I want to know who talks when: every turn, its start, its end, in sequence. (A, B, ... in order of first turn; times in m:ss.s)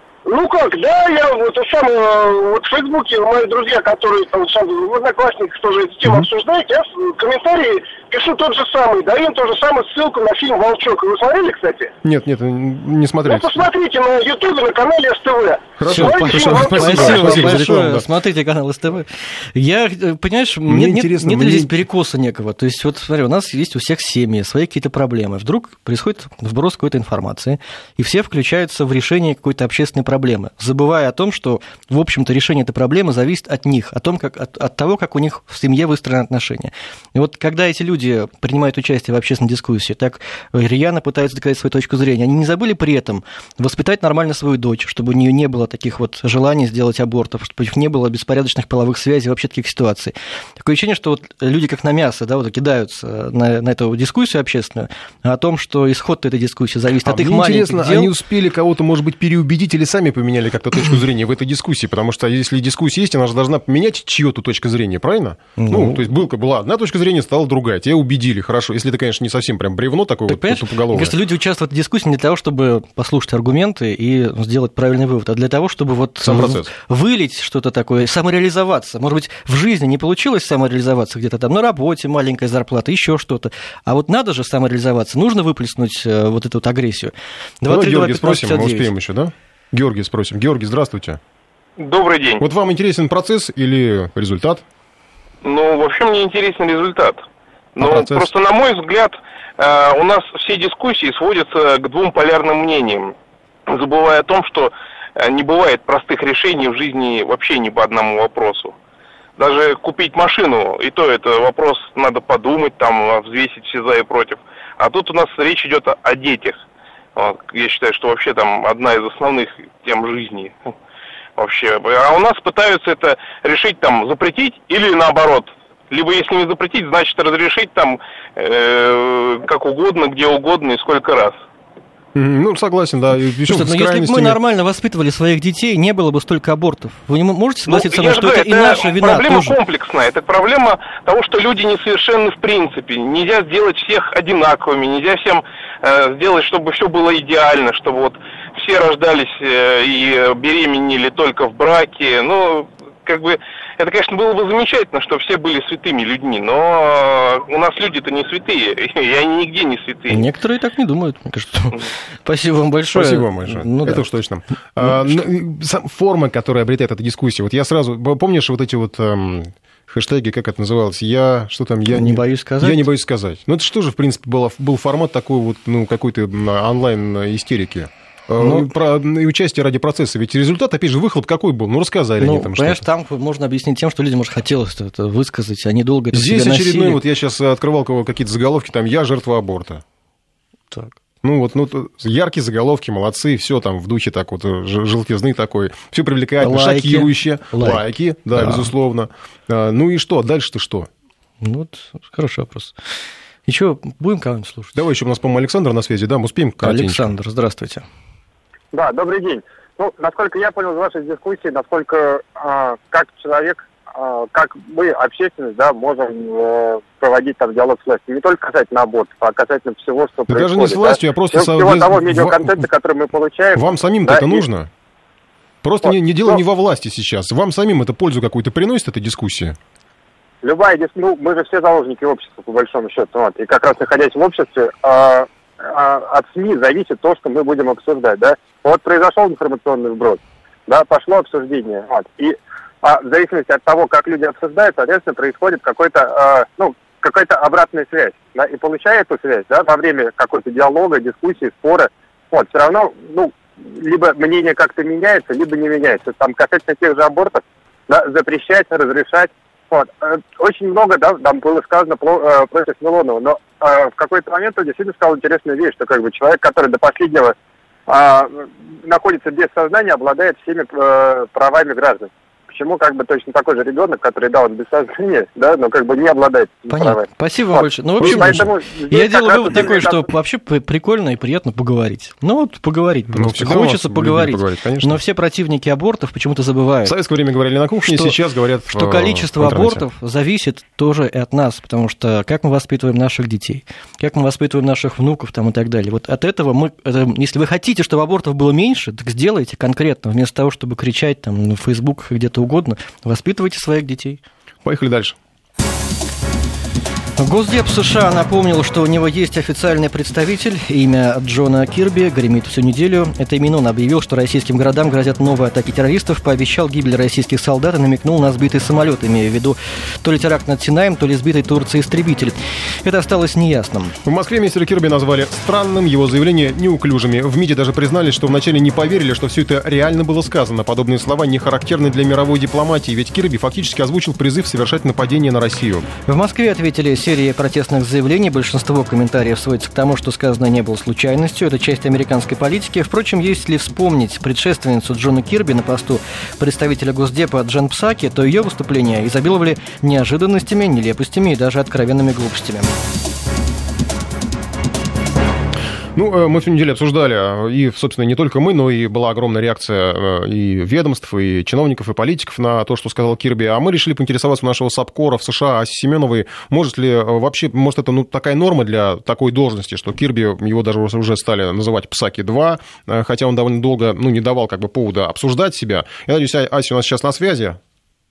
0:00.3-0:11.9 A
0:12.0-0:13.6 B
0:13.2-0:17.6 A
0:15.8-0:18.1 B
0:15.9-0:58.1 C
0:20.7-0:21.7 B
0:57.0-1:11.1 B
1:05.6-1:06.0 C
1:10.3-1:28.9 C
1:16.2-1:16.7 B
1:27.7-1:31.2 B
1:31.8-1:32.4 D
1:32.4-1:34.6 B
1:35.4-1:37.2 D
1:37.8-1:43.1 D
1:37.8-1:38.3 B
1:43.7-1:48.7 D
1:49.4-1:56.6 D
1:57.2-2:00.7 D
2:01.4-2:11.4 D
2:12.1-2:14.4 B
2:13.5-2:19.6 C
2:17.7-2:40.2 D
2:40.1-2:44.0 C
2:42.9-3:02.8 B
2:44.8-2:45.1 C
2:51.9-2:52.8 C
2:58.4-2:58.7 C
3:02.2-3:07.0 C
3:06.1-3:09.8 B
3:11.2-3:20.9 B
3:16.4-3:18.7 C
3:21.4-3:22.7 C
3:23.5-3:24.7 C
3:24.7-3:27.1 B
3:26.6-3:27.8 C
3:28.7-3:44.4 E
3:40.3-3:42.6 B
3:43.5-3:44.7 B
3:45.6-3:49.6 B
3:45.8-3:46.4 E
3:50.4-4:27.3 E
4:27.9-4:40.0 E
4:36.7-4:46.9 C
4:38.0-4:38.4 B
4:43.1-4:45.0 B
4:46.8-4:49.8 B
4:47.8-4:48.2 C
4:48.7-5:04.2 C
5:04.6-5:05.2 B
5:07.2-5:24.0 C
5:24.0-5:35.8 B
5:36.1-5:52.7 C
5:55.9-6:17.6 B